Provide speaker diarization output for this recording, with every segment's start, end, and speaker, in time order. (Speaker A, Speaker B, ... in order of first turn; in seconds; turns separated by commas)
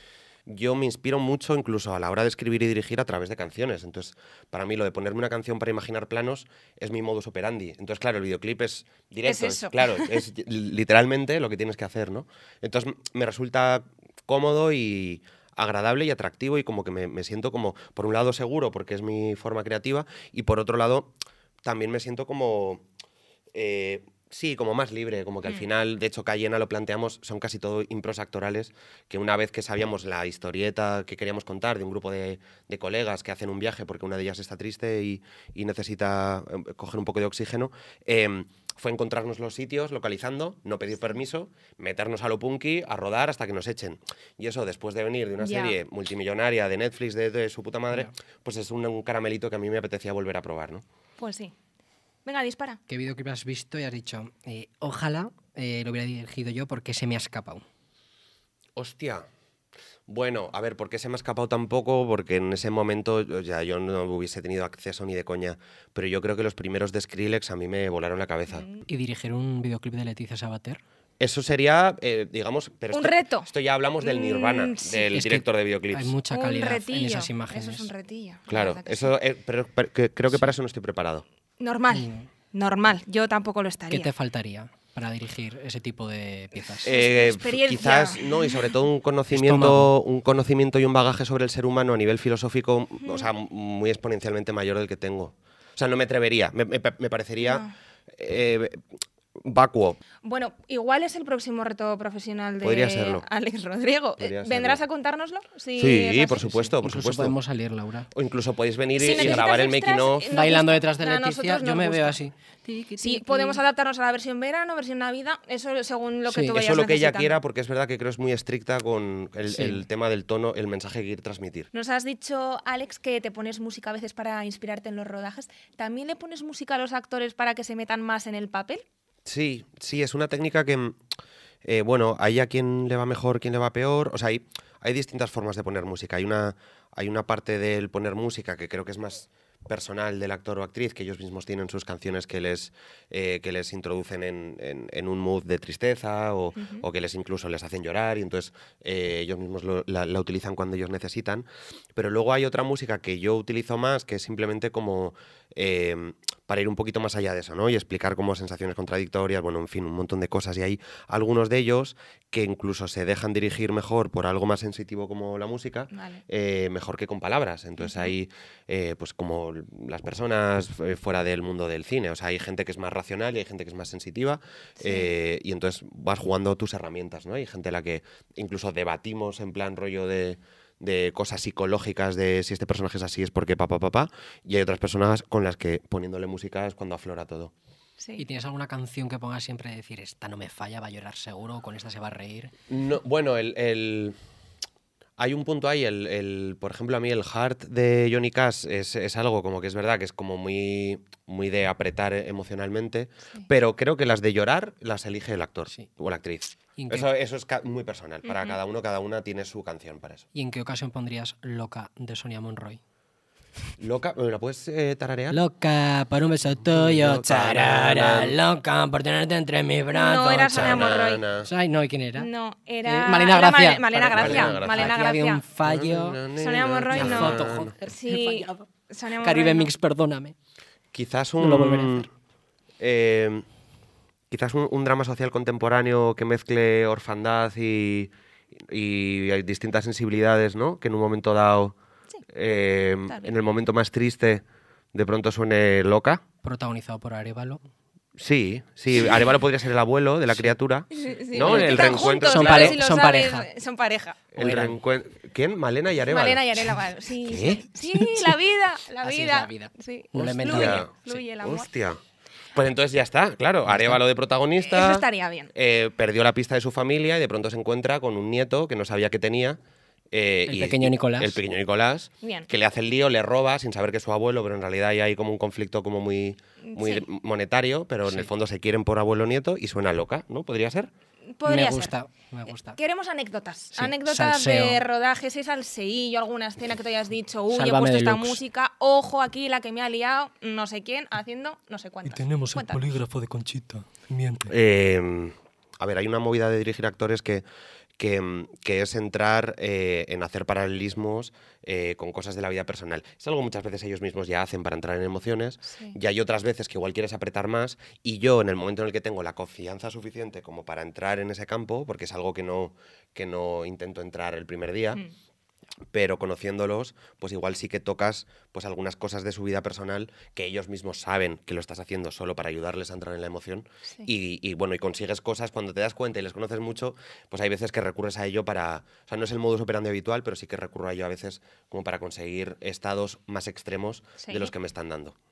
Speaker A: 0.5-21.1, Speaker B: 9.2-10.1, Speaker A: 21.6-22.8, Speaker A: 23.5-50.8, Speaker B: 45.4-45.8, Speaker B: 51.2-51.5, Speaker B: 52.2-52.8, Speaker C: 52.9-57.6, Speaker A: 58.8-59.2, Speaker A: 60.1-68.7, Speaker B: 68.5-68.8, Speaker C: 68.9-70.8, Speaker A: 71.2-76.1, Speaker B: 72.9-73.5, Speaker B: 74.0-75.2, Speaker C: 75.1-77.9, Speaker B: 76.3-79.1, Speaker A: 78.5-81.2, Speaker B: 81.6-84.1, Speaker C: 81.9-82.3, Speaker C: 83.9-86.9, Speaker B: 86.8-88.7, Speaker A: 86.8-97.7, Speaker C: 89.3-89.9, Speaker B: 93.0-93.3, Speaker B: 97.4-97.7, Speaker A: 98.2-98.8, Speaker A: 99.4-100.0, Speaker B: 100.2-106.7, Speaker A: 102.6-103.2, Speaker A: 104.2-104.8, Speaker A: 105.8-107.3, Speaker C: 106.5-108.1, Speaker A: 108.1-110.3, Speaker B: 109.0-112.2, Speaker C: 109.1-109.4, Speaker C: 110.3-113.6, Speaker B: 113.0-117.4, Speaker C: 116.3-116.5, Speaker A: 116.5-121.7, Speaker C: 119.5-119.8, Speaker B: 121.7-128.8, Speaker A: 129.2-131.0, Speaker A: 131.6-187.5, Speaker B: 146.6-146.8, Speaker B: 165.9-166.2, Speaker B: 167.8-168.1, Speaker B: 174.8-175.1, Speaker B: 188.0-188.2, Speaker C: 188.2-192.5, Speaker A: 192.7-194.2, Speaker A: 195.2-210.2, Speaker C: 206.8-207.1, Speaker B: 208.2-208.6, Speaker C: 210.3-212.8, Speaker A: 213.8-215.4, Speaker C: 215.3-220.9, Speaker A: 216.7-218.3, Speaker B: 219.9-221.2, Speaker A: 220.5-221.5, Speaker C: 221.4-222.3, Speaker B: 222.2-225.4, Speaker C: 222.8-226.2, Speaker A: 224.1-225.0, Speaker A: 225.6-227.7, Speaker B: 226.4-229.7, Speaker C: 226.9-228.7, Speaker C: 229.2-230.3, Speaker A: 230.9-232.1, Speaker C: 231.4-232.1, Speaker A: 232.8-233.5, Speaker A: 234.3-238.1, Speaker A: 238.7-241.8, Speaker A: 242.3-246.2, Speaker B: 243.1-243.3, Speaker C: 246.4-247.6, Speaker A: 248.2-252.8, Speaker C: 250.3-250.5, Speaker B: 250.9-254.2, Speaker C: 251.4-253.5, Speaker A: 254.3-256.4, Speaker C: 254.4-254.8, Speaker B: 256.1-261.7, Speaker A: 257.3-257.6, Speaker C: 257.3-258.3, Speaker C: 259.0-260.9, Speaker A: 260.5-262.0, Speaker A: 262.5-269.6, Speaker C: 263.6-264.0, Speaker B: 264.6-265.5, Speaker A: 270.1-280.9, Speaker C: 270.5-271.4, Speaker B: 272.2-272.5, Speaker B: 276.6-277.0, Speaker B: 281.3-281.9, Speaker C: 281.4-282.8, Speaker B: 282.7-293.0, Speaker C: 283.7-284.8, Speaker C: 287.5-288.4, Speaker C: 292.0-294.5, Speaker A: 294.5-297.4, Speaker A: 298.0-315.0, Speaker B: 305.7-306.0, Speaker A: 315.9-335.1, Speaker B: 334.2-334.5